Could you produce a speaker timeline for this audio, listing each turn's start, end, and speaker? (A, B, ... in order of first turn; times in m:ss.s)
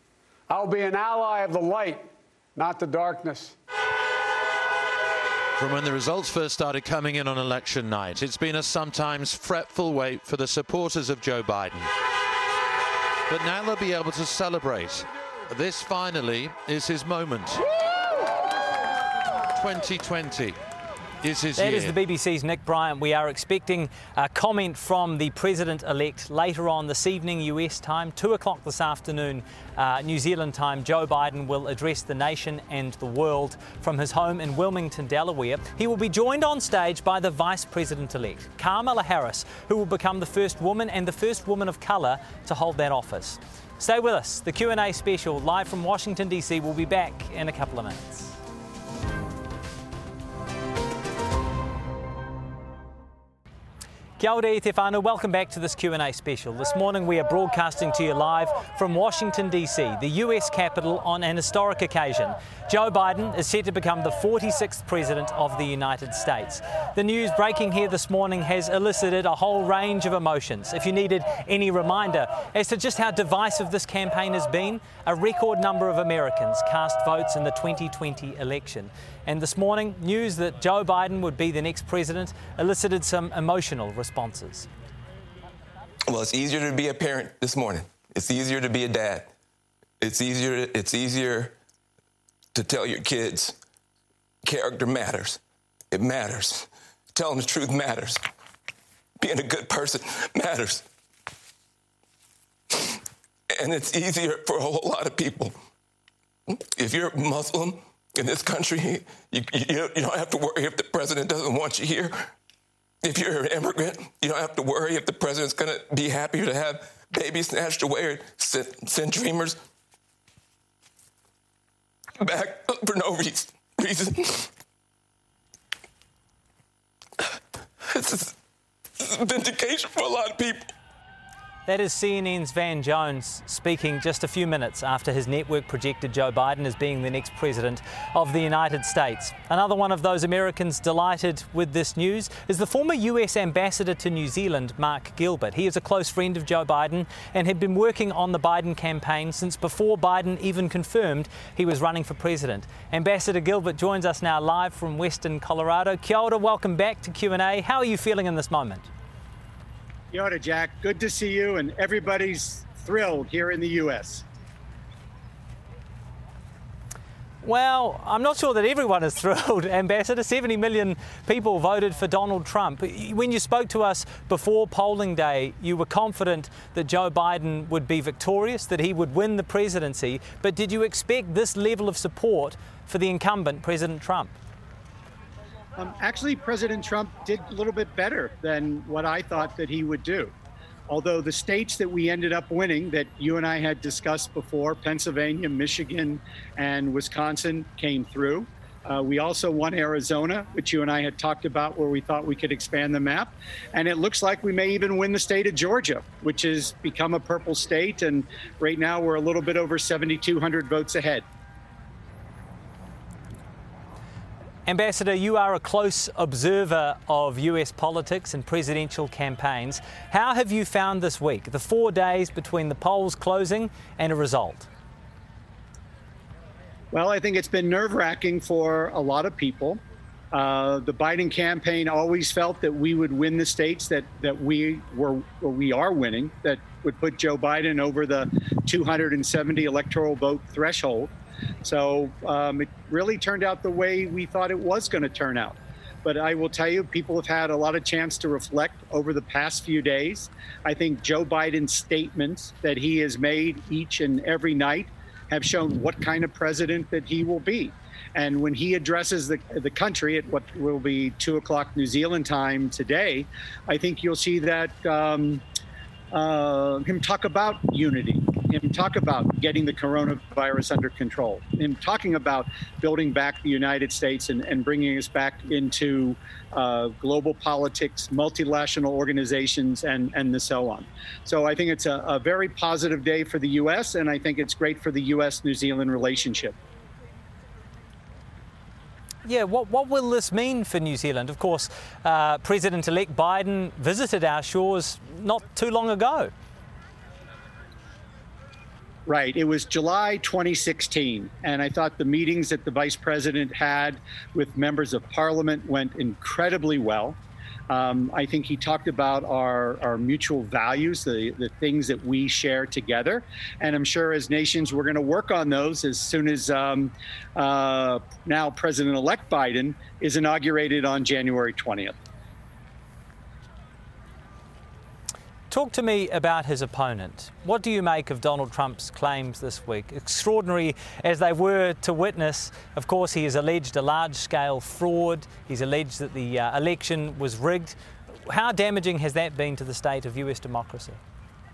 0:00.5-0:03.5 A
0:05.6-0:11.9 B
0:13.3-0:17.6 B
0:19.5-0:20.6 B
0:21.2-0:22.0 B
0:21.6-0:48.4 C
0:54.2-1:24.7 C
1:26.1-1:29.3 D
1:30.0-1:31.5 D
1:32.5-1:33.6 D
1:34.4-1:35.4 D
1:35.9-1:38.2 D
1:39.2-1:40.8 D
1:43.5-1:45.6 D
1:46.5-1:52.3 D
1:53.0-1:59.6 D
2:02.2-2:04.5 D
2:07.9-2:08.3 D
2:09.0-2:10.7 D
2:11.6-2:38.9 C
2:40.1-2:44.2 E
2:47.4-3:04.3 C
3:05.8-3:10.3 E
3:10.9-3:31.2 E
3:34.6-3:44.7 C
3:46.9-3:49.8 E
3:50.3-4:01.1 E
4:01.6-4:25.4 E
4:26.1-4:46.6 E
4:49.2-4:56.3 C
4:59.0-5:07.2 E
5:07.7-5:22.0 E
5:25.5-5:37.8 C
5:38.3-5:41.0 C